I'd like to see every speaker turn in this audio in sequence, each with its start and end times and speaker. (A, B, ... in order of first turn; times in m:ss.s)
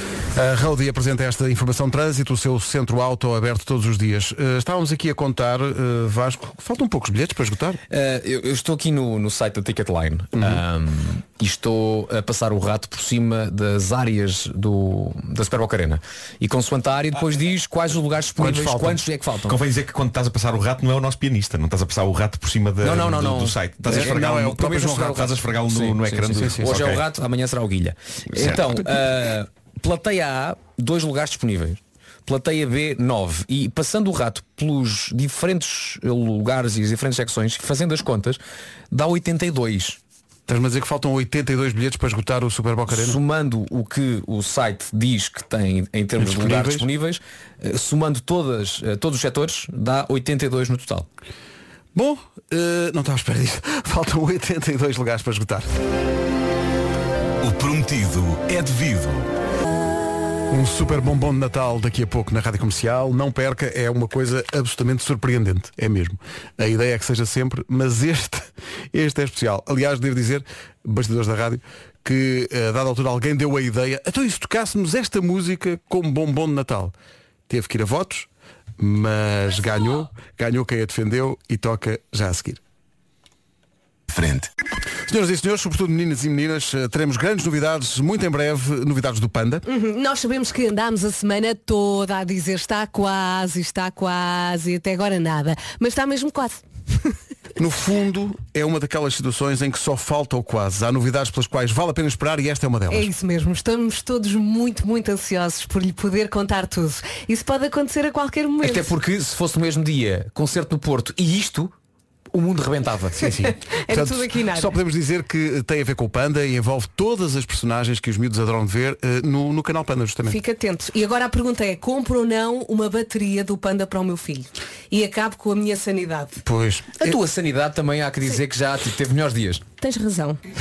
0:00.3-0:07.8 A
0:07.9-0:19.6 B
0:10.4-0:10.6 A
0:18.4-0:19.0 A
0:19.5-0:27.0 C
0:22.8-0:40.0 B
0:23.9-0:25.3 A
0:26.4-0:26.8 A
0:28.3-0:28.8 C
0:40.5-0:43.2 A
0:42.9-0:51.1 B
0:46.2-0:46.9 A
0:51.9-0:55.7 A
0:57.4-0:59.2 D
1:00.5-1:16.9 A
1:17.5-1:18.3 A
1:18.8-1:22.6 A
1:24.1-1:24.4 D
1:25.0-1:29.6 A
1:29.7-1:37.2 E
1:37.6-1:43.1 A
1:42.9-1:48.9 E
1:48.6-1:51.7 B
1:52.3-1:53.3 B
1:53.2-2:00.4 A
1:53.4-1:54.7 E
2:00.3-2:06.4 E
2:06.4-2:07.2 A
2:07.0-2:09.6 B
2:09.8-2:10.4 E